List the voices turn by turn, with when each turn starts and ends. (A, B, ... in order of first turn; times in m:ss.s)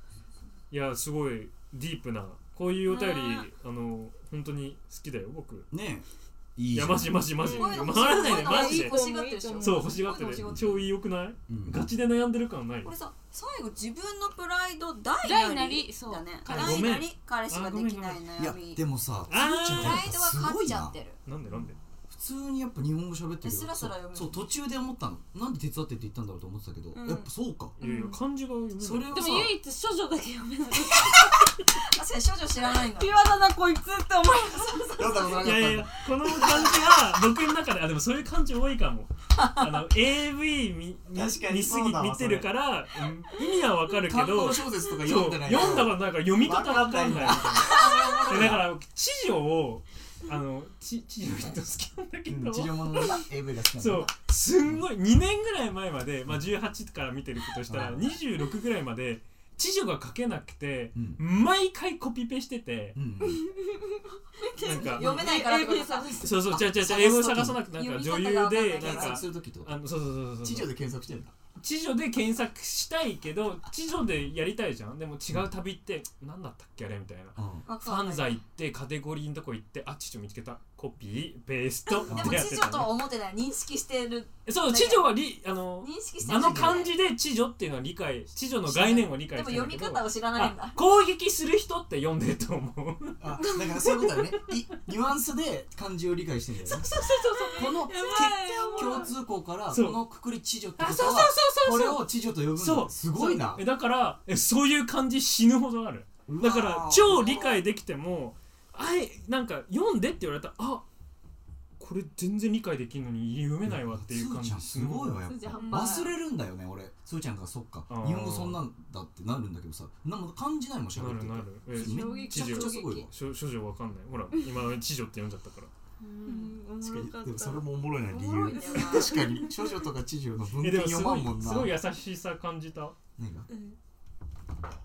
0:00.7-0:05.7 A
0:02.9-0:03.5 B
0:05.7-0:06.0 C
0:06.6-0:07.3 C
0:06.7-0:09.0 A
0:07.4-0:10.1 B
0:07.4-0:10.7 D
0:09.6-0:12.9 A
0:10.4-0:10.8 C
0:11.5-0:11.9 C
0:12.8-0:18.8 D
0:15.2-0:17.0 B
0:16.4-0:18.3 A
0:18.4-0:21.0 C
0:19.3-0:20.1 A
0:19.8-0:21.2 D
0:21.3-0:21.8 A
0:22.1-0:27.8 C
0:23.4-0:24.4 D
0:27.0-0:27.3 B
0:27.8-0:29.5 A
0:27.8-0:28.2 B
0:28.8-0:29.6 C
0:29.1-0:31.5 B
0:31.8-0:33.2 D
0:32.7-0:35.1 B
0:34.6-0:35.3 D
0:35.0-0:35.9 C
0:35.4-1:03.0 A
0:39.4-0:39.9 D
0:41.1-0:42.5 C
0:44.0-0:48.7 C
0:47.5-0:48.6 D
0:52.3-0:54.1 C
0:57.7-0:58.1 C
1:00.9-1:01.2 C
1:03.0-1:03.4 C
1:03.2-1:06.4 B
1:04.6-1:05.3 A
1:04.6-1:09.2 D
1:06.2-1:10.7 A
1:06.8-1:07.6 C
1:08.8-1:09.8 C
1:10.4-1:11.3 C
1:11.6-1:23.0 A
1:17.4-1:17.7 C
1:17.7-1:18.4 D
1:21.9-1:25.1 D
1:22.1-1:22.5 C
1:24.5-1:33.2 A
1:25.8-1:27.0 D
1:26.2-1:26.8 C
1:28.7-1:30.8 D
1:33.2-1:36.9 C
1:33.4-1:34.1 B
1:36.7-1:39.1 B
1:37.6-1:43.6 C
1:39.7-1:40.0 A
1:40.8-1:42.0 A
1:42.6-1:50.8 A
1:46.3-1:47.3 C
1:47.1-1:47.6 D
1:51.8-1:55.2 A
1:53.6-2:03.1 C
1:55.3-1:56.1 D
1:55.5-1:56.0 B
1:57.9-1:58.6 A
2:01.0-2:05.7 A
2:01.8-2:03.1 D
2:02.0-2:02.3 B
2:06.0-2:06.6 D
2:06.3-2:07.7 B
2:06.8-2:11.7 C
2:08.1-2:09.3 D
2:08.5-2:09.5 B
2:10.6-2:13.0 A
2:13.2-2:13.5 C
2:13.5-2:13.8 B